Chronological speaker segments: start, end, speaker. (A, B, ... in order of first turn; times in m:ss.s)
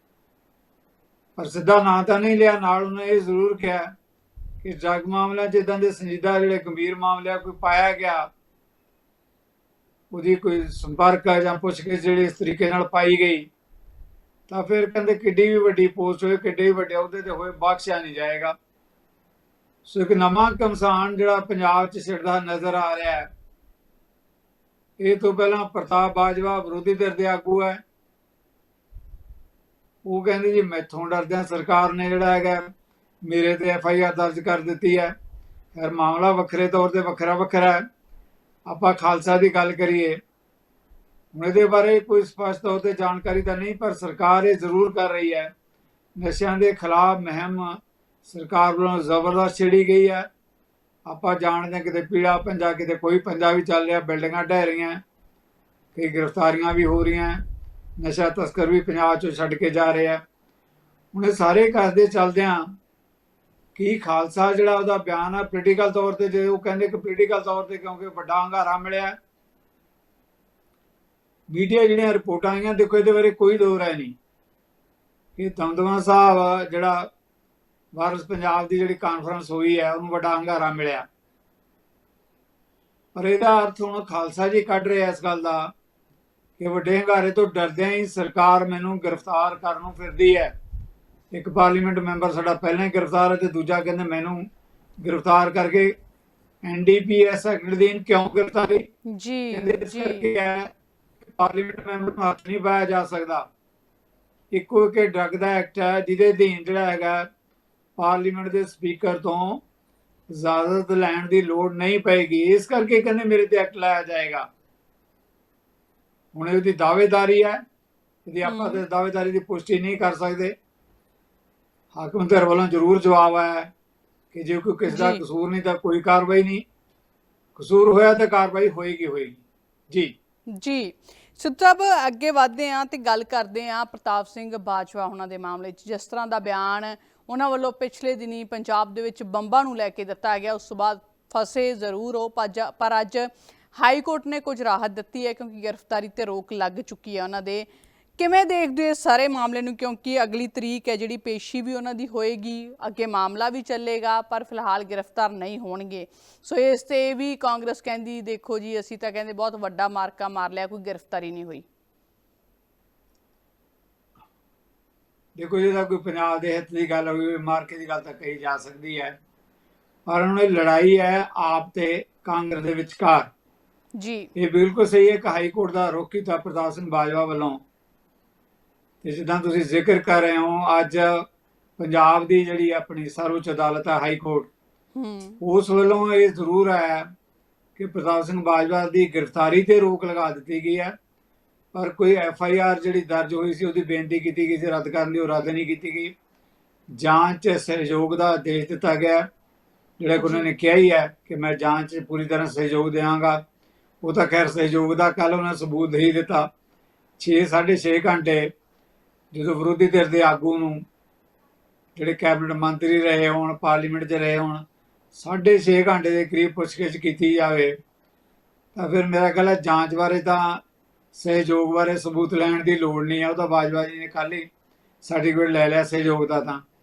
0:01.4-0:03.9 A
0:04.6-0:08.3 A
0:10.1-0:13.5 A
0:14.5-0:18.6 A
0:19.8-0:23.3 A
0:25.0-0:27.8 A
0:30.0-0:32.7 A
0:33.2-0:35.1 A
0:35.7-0:37.8 A
0:38.7-0:40.2 A
0:41.3-0:45.5 A
0:46.2-0:50.3 A
0:51.0-0:55.0 A
0:55.9-0:57.4 A
0:58.0-1:00.2 A
1:01.1-1:02.8 A
1:03.8-1:09.1 A
1:11.5-1:14.1 A
1:15.4-1:17.1 A
1:17.9-1:21.0 A
1:23.1-1:25.7 A
1:26.6-1:30.5 A
1:31.3-1:34.5 A
1:35.0-1:35.9 A
1:36.6-1:38.9 A
1:39.1-1:40.2 B
1:39.5-1:40.7 A
1:41.2-1:43.4 A
1:44.5-1:47.3 A
1:48.0-1:49.6 A
1:50.3-1:54.5 A
1:56.3-1:57.6 A
1:58.3-2:00.5 A
1:58.4-1:58.8 B
2:01.9-2:03.7 A
2:04.3-2:06.6 A
2:04.9-2:05.2 B
2:07.6-2:10.1 A
2:10.5-2:41.6 B
2:45.4-2:49.2 A
2:50.1-2:53.3 A
2:54.0-2:54.3 B
2:54.4-2:57.6 A
2:59.0-3:01.2 A
3:01.8-3:04.5 A
3:04.9-3:05.4 B
3:05.4-3:07.1 A
3:07.8-3:11.0 A
3:11.7-3:16.1 A
3:17.0-3:19.3 A
3:20.0-3:23.4 A
3:20.2-3:20.5 B
3:24.0-3:26.5 A
3:27.2-3:28.5 A
3:29.3-3:30.8 A
3:32.0-3:34.6 A
3:35.1-3:37.7 A
3:38.7-3:40.6 A
3:41.1-3:44.5 A
3:45.0-3:46.6 A